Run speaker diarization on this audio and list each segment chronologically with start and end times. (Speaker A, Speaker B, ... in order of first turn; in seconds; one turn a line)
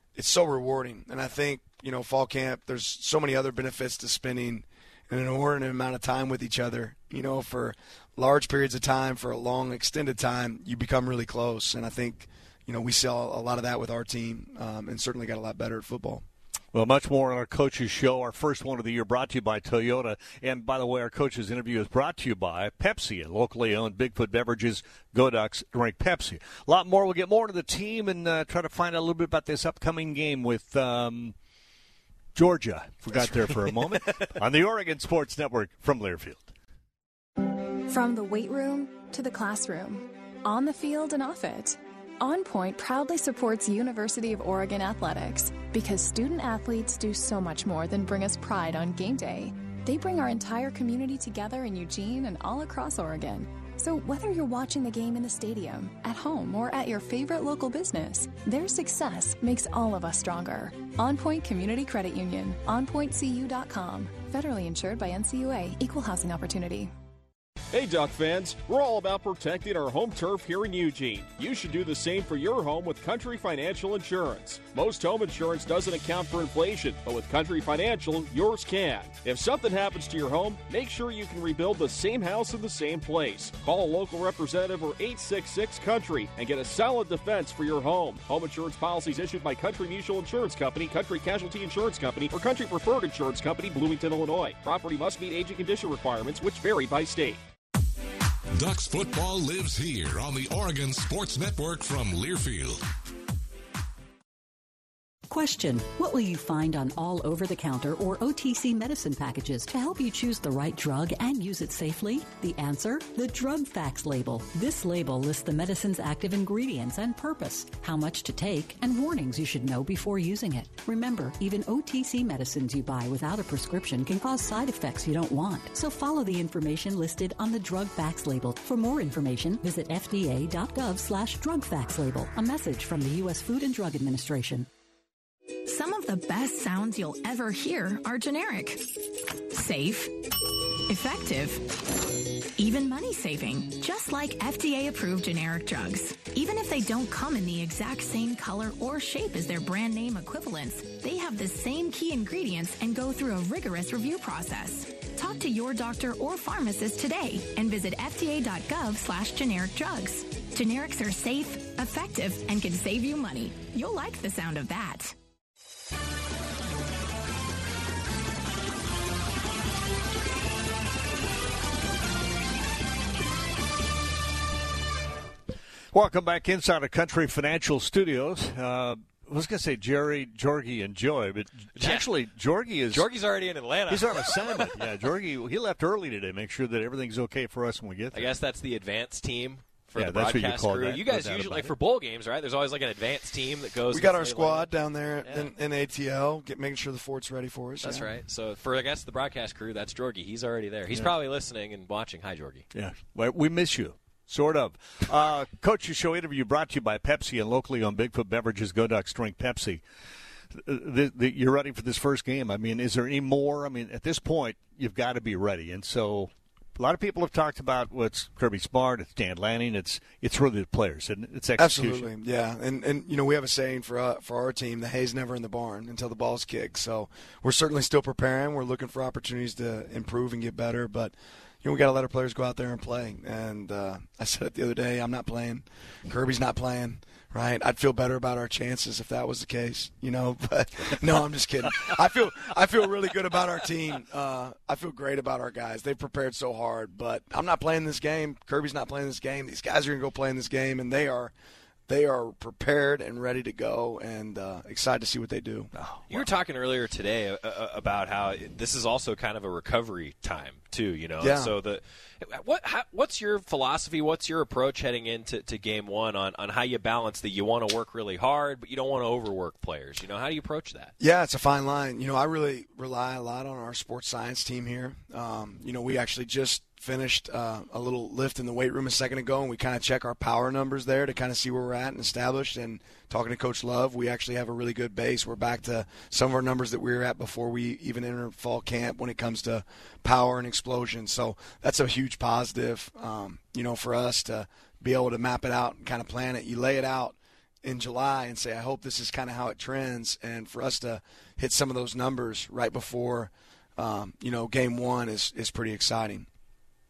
Speaker A: 0.1-16.2
Speaker B: 16.7-31.3
Speaker B: 32.3-36.5
Speaker C: 33.1-34.2
Speaker D: 37.9-66.9
Speaker E: 67.7-97.4
Speaker F: 98.5-102.8
Speaker G: 105.3-134.7
Speaker H: 135.7-138.8
Speaker H: 139.5-140.1
Speaker H: 140.9-141.6
Speaker H: 142.6-165.1
Speaker B: 175.9-183.1
Speaker C: 181.8-182.1
Speaker C: 182.9-184.8
Speaker B: 183.9-188.3
Speaker C: 188.1-195.5
Speaker B: 189.9-191.7
Speaker A: 193.9-198.1
Speaker C: 197.8-202.7
Speaker B: 202.7-209.8
Speaker B: 210.5-222.1
Speaker A: 221.6-251.3
Speaker A: 251.9-255.7
Speaker B: 255.7-256.2
Speaker C: 256.1-270.9
Speaker A: 261.2-261.5
Speaker A: 271.0-306.3